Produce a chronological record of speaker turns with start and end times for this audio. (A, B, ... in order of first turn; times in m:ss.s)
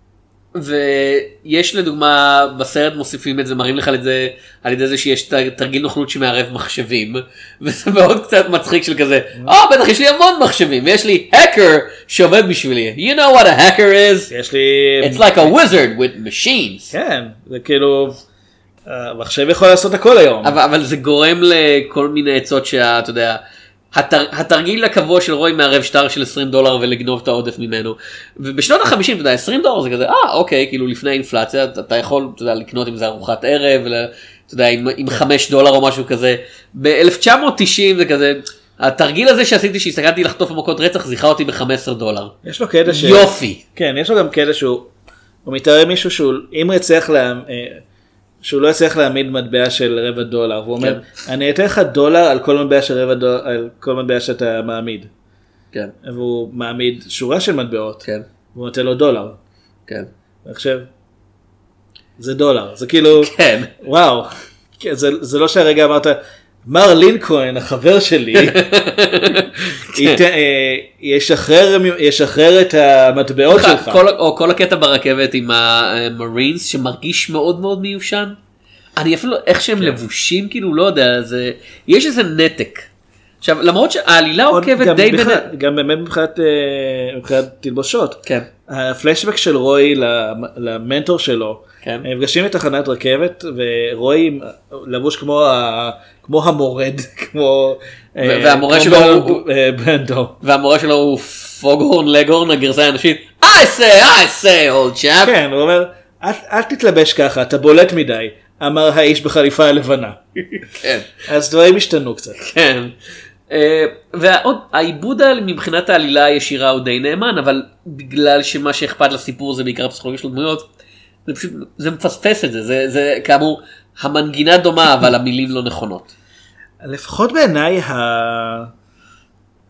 0:00.5-0:14.3 A
0:14.3-0:15.6 B
0:15.0-0:16.9 A
0:16.9-0:18.2 B
0:18.8-0:20.6 B
0:20.4-0:23.4 A
0:23.9-0:42.3 A
0:42.4-0:44.9 B
0:42.8-0:43.6 A
0:45.4-0:47.8 B
0:48.4-0:55.1 B
0:50.8-0:51.0 A
0:56.0-0:59.4 B
1:00.4-1:00.9 B
1:02.2-1:08.6 B
1:03.1-1:03.7 A
1:08.3-1:10.2 A
1:09.9-1:14.0 B
1:13.5-1:18.4 A
1:19.0-1:22.9 A
1:23.4-1:25.5 A
1:24.5-1:40.4 B
1:38.2-1:39.4 A
1:40.4-1:45.3 A
1:45.2-1:50.2 B
1:50.6-1:51.1 A
1:51.3-1:52.4 B
1:52.4-1:52.9 A
1:53.5-2:00.7 A
2:01.2-2:06.1 A
2:06.8-2:08.7 B